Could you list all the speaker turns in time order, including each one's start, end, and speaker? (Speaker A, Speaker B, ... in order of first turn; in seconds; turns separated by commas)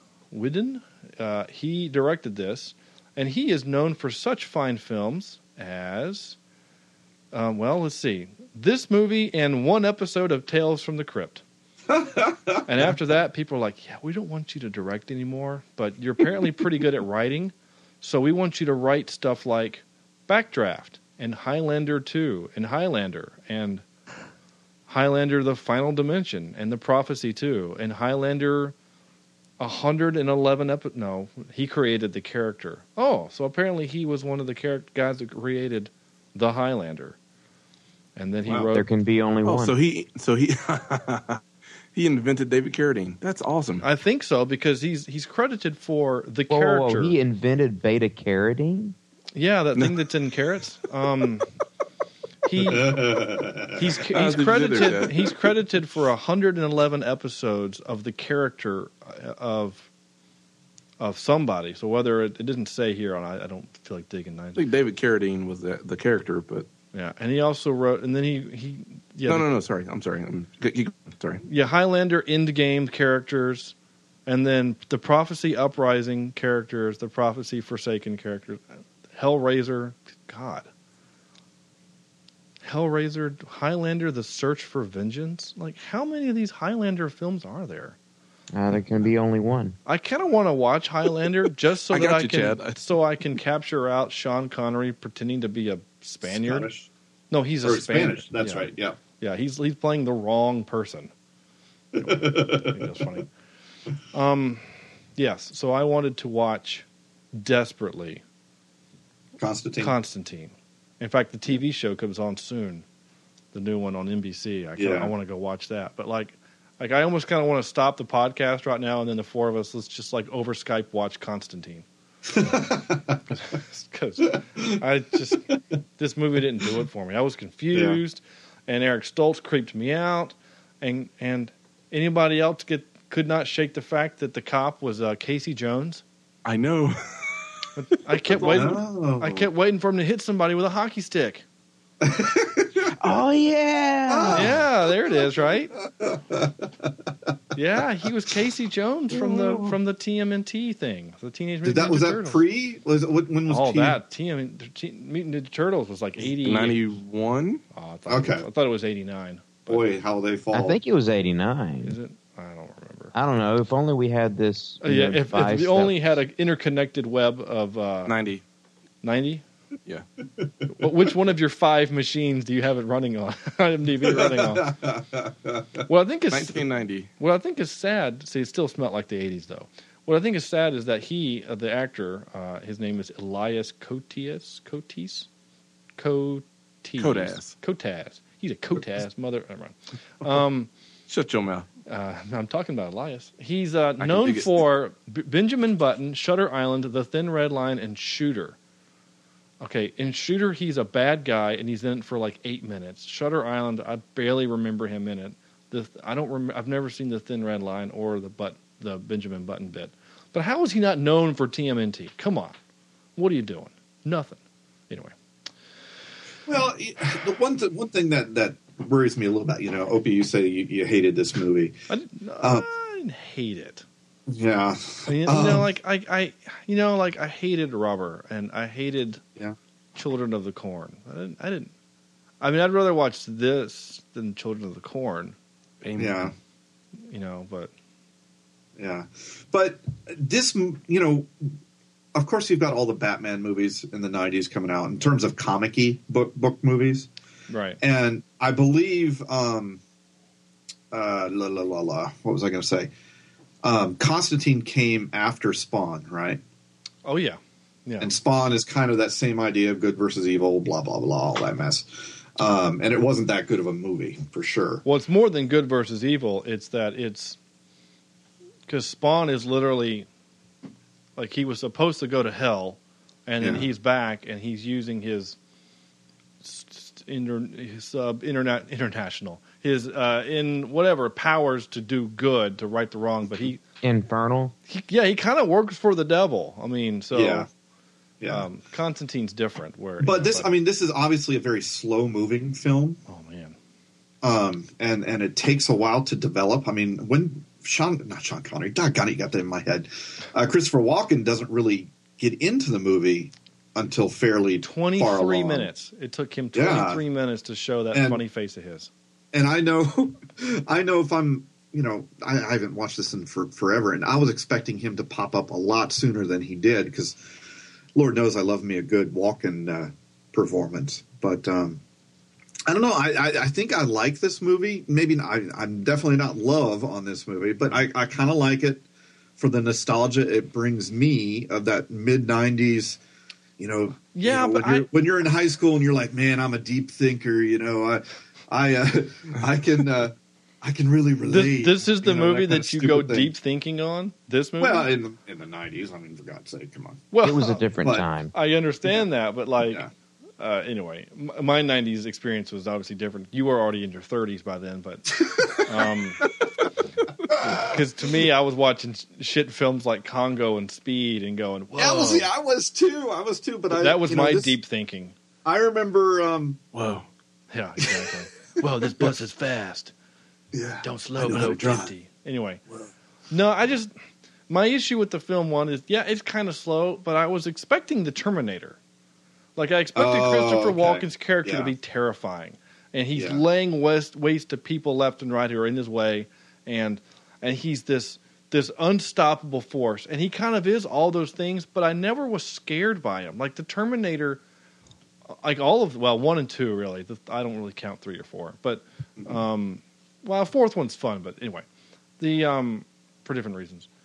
Speaker A: 0.3-6.4, Speaker A: 7.3-11.4, Speaker B: 11.9-12.9, Speaker A: 12.7-23.8, Speaker A: 24.9-28.7, Speaker A: 29.6-37.2, Speaker A: 38.1-38.9, Speaker C: 38.7-39.8, Speaker D: 39.4-41.4, Speaker D: 41.9-43.8, Speaker A: 43.8-47.2, Speaker C: 46.5-49.0, Speaker A: 49.3-51.5, Speaker A: 52.5-53.0, Speaker B: 52.6-54.0, Speaker A: 53.8-59.9, Speaker D: 54.1-55.3, Speaker A: 61.0-64.6, Speaker D: 64.5-66.7, Speaker A: 66.9-69.5, Speaker D: 69.3-71.4, Speaker A: 71.4-73.7, Speaker A: 74.2-78.6, Speaker A: 79.1-80.7, Speaker A: 82.6-88.0, Speaker C: 88.5-89.8, Speaker A: 89.8-96.7, Speaker D: 91.9-92.8, Speaker B: 96.2-96.9, Speaker A: 97.3-101.1, Speaker B: 97.6-99.0, Speaker B: 101.9-102.9, Speaker A: 102.0-103.2, Speaker A: 104.1-108.2, Speaker B: 109.4-109.9, Speaker A: 109.8-112.8, Speaker A: 113.5-121.8, Speaker B: 114.8-115.1, Speaker B: 122.3-123.2, Speaker A: 123.3-125.4, Speaker A: 126.0-136.0, Speaker B: 127.7-128.0, Speaker D: 136.4-137.4, Speaker A: 137.8-141.4, Speaker B: 138.3-139.5, Speaker D: 138.3-138.7, Speaker B: 142.0-142.9, Speaker C: 143.0-144.5, Speaker B: 144.1-145.3, Speaker A: 144.3-145.7, Speaker B: 146.0-146.9, Speaker A: 147.5-152.4, Speaker B: 149.1-149.8, Speaker B: 151.6-154.0, Speaker A: 153.5-156.8, Speaker D: 156.4-157.6, Speaker A: 157.7-159.9, Speaker B: 158.1-158.4, Speaker B: 159.7-160.8, Speaker C: 160.5-161.9, Speaker A: 161.8-163.1, Speaker C: 163.1-165.9, Speaker A: 164.8-168.1, Speaker D: 168.1-168.4, Speaker A: 169.0-169.4, Speaker A: 170.8-174.7, Speaker B: 174.0-175.8, Speaker A: 175.9-176.7, Speaker D: 176.3-177.1, Speaker A: 177.2-185.3, Speaker A: 186.0-190.7, Speaker D: 187.0-187.5, Speaker D: 191.1-191.7, Speaker A: 191.9-198.6, Speaker D: 194.0-194.7, Speaker A: 199.6-212.6, Speaker A: 213.2-214.4, Speaker B: 216.5-221.8, Speaker A: 221.9-223.8, Speaker B: 222.4-222.7, Speaker B: 224.3-225.7, Speaker A: 225.1-229.2, Speaker A: 229.9-231.7, Speaker A: 232.4-235.3, Speaker D: 235.8-236.3, Speaker B: 236.0-236.3, Speaker A: 237.1-237.7, Speaker B: 238.8-241.5, Speaker B: 242.1-247.1, Speaker A: 247.5-247.8, Speaker B: 247.8-249.8, Speaker B: 250.9-252.9, Speaker B: 253.6-256.4, Speaker A: 257.0-258.1, Speaker B: 258.0-264.8, Speaker A: 264.8-267.4, Speaker A: 268.7-270.1, Speaker A: 271.2-275.4, Speaker B: 273.4-273.7, Speaker A: 276.4-283.6, Speaker C: 283.8-284.5, Speaker A: 284.7-287.5, Speaker B: 287.1-287.5, Speaker B: 288.2-288.4, Speaker A: 288.3-290.5, Speaker B: 290.0-293.0, Speaker A: 293.1-293.6, Speaker B: 294.2-305.7, Speaker A: 304.6-308.9, Speaker B: 306.5-307.0, Speaker B: 307.9-308.2, Speaker B: 309.3-317.2, Speaker B: 317.9-321.8, Speaker B: 322.7-328.8, Speaker B: 329.4-333.0, Speaker B: 333.6-343.3, Speaker A: 334.1-334.9, Speaker A: 341.3-344.9, Speaker B: 344.6-347.1, Speaker A: 347.1-347.7, Speaker C: 347.2-348.3, Speaker B: 347.8-348.1, Speaker A: 348.3-349.8, Speaker B: 349.6-349.9, Speaker A: 350.4-356.2, Speaker B: 355.2-356.7, Speaker B: 357.3-357.8, Speaker A: 357.4-362.3, Speaker B: 361.8-364.6, Speaker A: 363.7-365.1, Speaker B: 365.4-366.6, Speaker D: 366.7-367.1, Speaker A: 367.5-369.9, Speaker B: 370.5-371.9, Speaker A: 370.8-372.6, Speaker A: 373.3-373.9, Speaker A: 374.5-378.8, Speaker A: 379.6-394.4, Speaker B: 379.9-381.7, Speaker B: 383.1-383.4, Speaker A: 395.4-401.6, Speaker A: 402.2-403.9